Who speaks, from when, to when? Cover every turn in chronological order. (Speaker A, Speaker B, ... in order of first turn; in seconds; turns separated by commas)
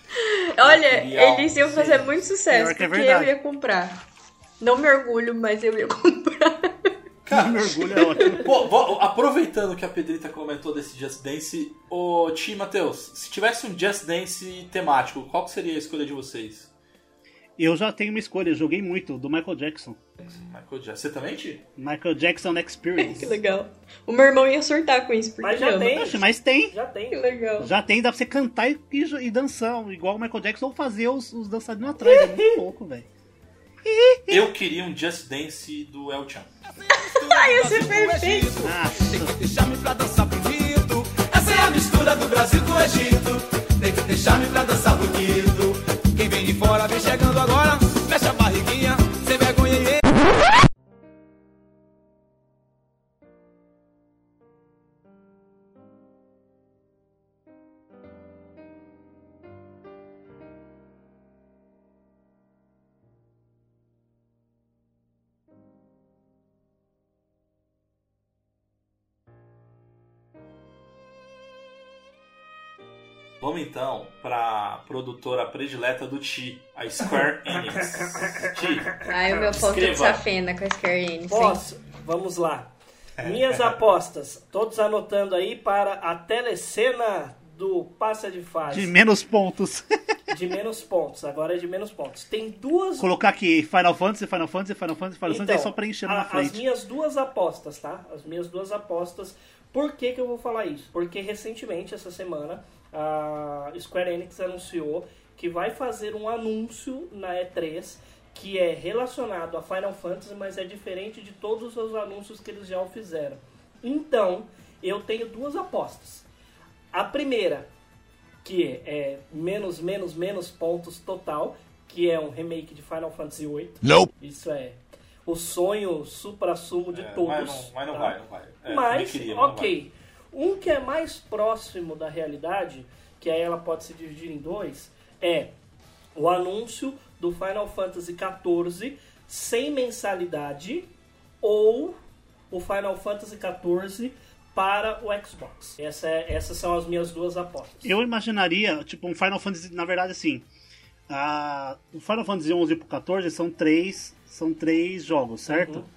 Speaker A: 0.1-4.0, Speaker B: 0.6-2.3, Speaker C: 2.5-3.3, Speaker A: 4.6-6.9, Speaker B: 7.3-16.7, Speaker C: 7.3-8.5, Speaker A: 7.9-8.5, Speaker C: 17.6-20.0, Speaker B: 20.2-21.6, Speaker C: 21.8-23.4, Speaker A: 23.0-26.1, Speaker D: 25.4-27.6, Speaker C: 25.9-26.7, Speaker A: 27.1-27.7, Speaker C: 27.6-33.1, Speaker A: 32.0-32.6, Speaker C: 33.8-34.5, Speaker B: 34.3-36.5, Speaker E: 36.8-50.0, Speaker A: 37.1-38.5, Speaker C: 38.6-39.3, Speaker B: 73.4-80.2, Speaker D: 78.0-78.5, Speaker A: 79.0-81.6, Speaker D: 81.3-88.9, Speaker B: 83.2-83.7, Speaker C: 88.7-90.0, Speaker D: 90.3-93.1, Speaker C: 93.0-96.6, Speaker D: 95.2-116.2, Speaker D: 116.9-117.7, Speaker D: 118.4-135.5, Speaker B: 126.9-129.7, Speaker D: 136.1-140.9, Speaker D: 141.4-141.9, Speaker D: 142.5-147.9, Speaker C: 147.8-150.4, Speaker C: 151.1-155.9, Speaker D: 155.5-155.9